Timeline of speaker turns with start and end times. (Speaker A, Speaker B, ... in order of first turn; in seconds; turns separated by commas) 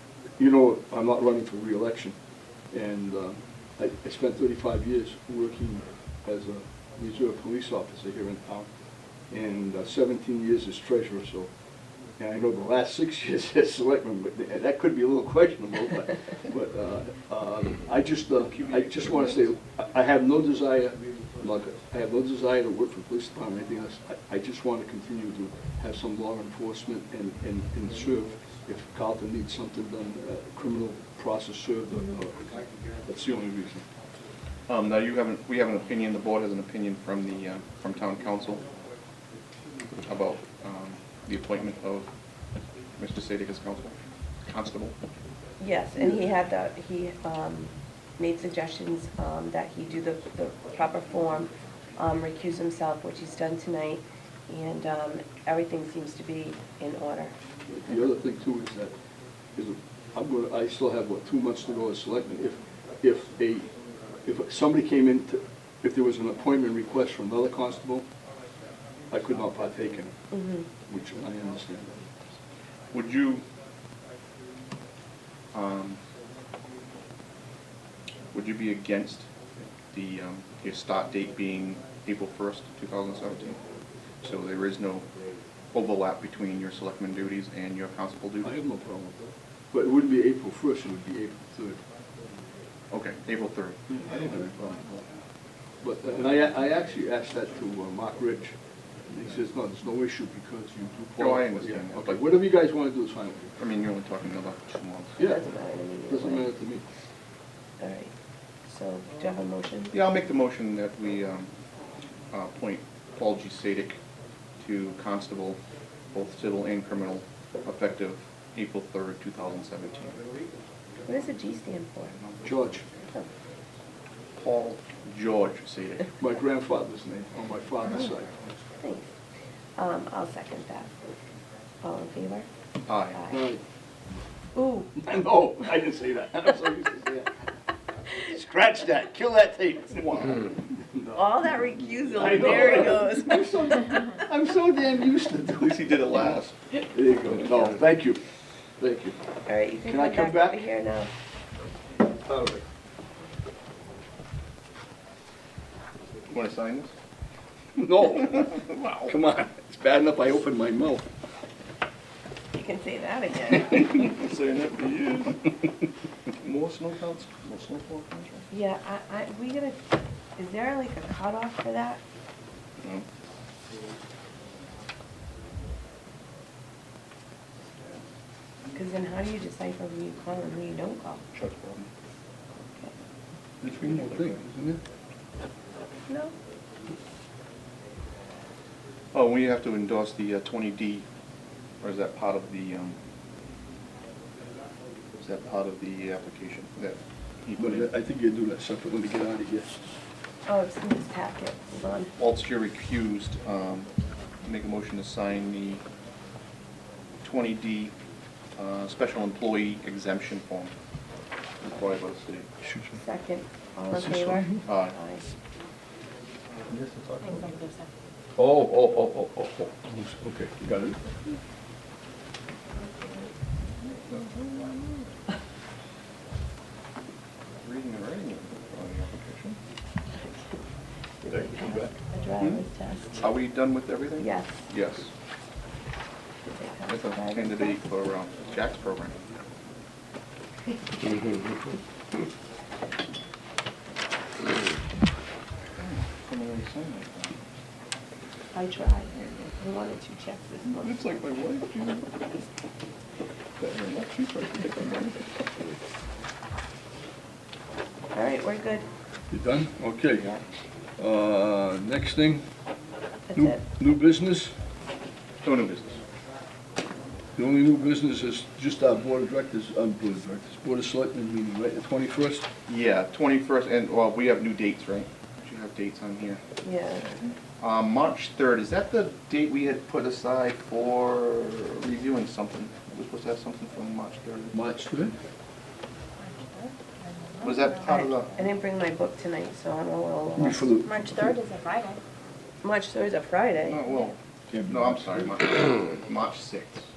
Speaker A: 0.3-2.2, Speaker A: 2.7-8.7, Speaker A: 9.2-11.5, Speaker A: 12.1-33.9, Speaker B: 18.5-19.5, Speaker B: 34.7-38.6, Speaker B: 40.0-42.1, Speaker B: 43.0-44.9, Speaker C: 45.6-57.3, Speaker A: 57.7-58.9, Speaker A: 59.5-63.7, Speaker A: 64.2-68.1, Speaker A: 69.1-70.1, Speaker C: 70.3-70.7, Speaker A: 70.9-72.1, Speaker B: 72.9-73.4, Speaker B: 75.5-76.0, Speaker B: 78.3-79.3, Speaker B: 79.9-83.6, Speaker B: 84.2-85.1, Speaker B: 85.7-88.5, Speaker A: 88.4-91.8, Speaker B: 92.9-93.8, Speaker A: 93.9-95.0, Speaker A: 95.8-103.5, Speaker B: 101.2-102.3, Speaker B: 103.6-105.2, Speaker A: 105.2-105.5, Speaker C: 105.2-106.5, Speaker A: 106.1-106.8, Speaker C: 107.8-108.1, Speaker C: 108.7-109.9, Speaker B: 109.9-111.5, Speaker B: 112.3-114.0, Speaker B: 114.6-115.6, Speaker B: 116.1-120.2, Speaker C: 121.0-122.1, Speaker B: 122.1-123.0, Speaker A: 122.4-122.8, Speaker B: 124.3-126.1, Speaker A: 126.2-128.3, Speaker C: 128.8-129.1, Speaker C: 129.8-130.9, Speaker C: 131.8-132.5, Speaker B: 132.9-133.2, Speaker C: 133.1-133.5, Speaker A: 133.3-133.6, Speaker C: 134.5-134.9, Speaker A: 134.9-137.3, Speaker A: 138.1-141.2, Speaker B: 140.0-140.4, Speaker C: 141.1-143.5, Speaker A: 142.1-146.2, Speaker B: 145.6-146.5, Speaker A: 146.9-148.2, Speaker A: 148.8-149.2, Speaker C: 149.5-151.1, Speaker A: 149.8-150.6, Speaker A: 152.3-152.6, Speaker B: 156.3-156.9, Speaker A: 157.8-161.1, Speaker B: 158.2-159.1, Speaker C: 162.5-163.9, Speaker B: 163.6-165.5, Speaker B: 166.4-168.4, Speaker C: 168.5-169.8, Speaker C: 170.4-172.0, Speaker B: 172.8-173.1, Speaker C: 178.7-181.3, Speaker B: 181.3-181.9, Speaker A: 183.6-184.8, Speaker B: 183.7-184.4, Speaker C: 186.1-186.3, Speaker B: 189.1-191.1, Speaker B: 191.8-193.0, Speaker B: 195.2-197.9, Speaker A: 197.6-199.9, Speaker C: 200.4-202.1, Speaker B: 202.2-203.9, Speaker B: 204.4-205.8, Speaker B: 207.2-207.9, Speaker B: 208.6-210.7, Speaker B: 211.6-212.5, Speaker A: 212.6-213.0, Speaker C: 212.9-215.2, Speaker A: 213.9-214.6, Speaker B: 214.6-215.0, Speaker A: 216.7-217.3, Speaker D: 217.2-217.9, Speaker A: 218.4-221.0, Speaker B: 224.1-225.0, Speaker B: 227.6-229.6, Speaker C: 230.1-230.6, Speaker C: 231.2-233.2, Speaker A: 231.3-231.9, Speaker B: 233.2-235.1, Speaker C: 234.2-234.6, Speaker C: 236.5-237.8, Speaker B: 236.9-239.2, Speaker B: 245.8-247.3, Speaker C: 248.5-251.0, Speaker B: 249.1-249.5, Speaker B: 250.7-252.1, Speaker B: 253.6-255.2, Speaker C: 258.1-258.9, Speaker A: 259.3-260.3, Speaker A: 261.0-262.4, Speaker C: 263.3-263.6, Speaker A: 263.3-264.5, Speaker B: 265.4-266.0, Speaker A: 267.4-272.5, Speaker B: 272.7-276.4, Speaker C: 276.6-277.1, Speaker B: 277.6-284.6, Speaker A: 284.5-285.1, Speaker D: 286.2-288.5, Speaker B: 287.4-288.3, Speaker C: 288.3-290.7, Speaker A: 290.4-291.0, Speaker D: 290.8-292.0, Speaker C: 292.6-293.8, Speaker B: 293.6-296.9, Speaker A: 294.5-295.3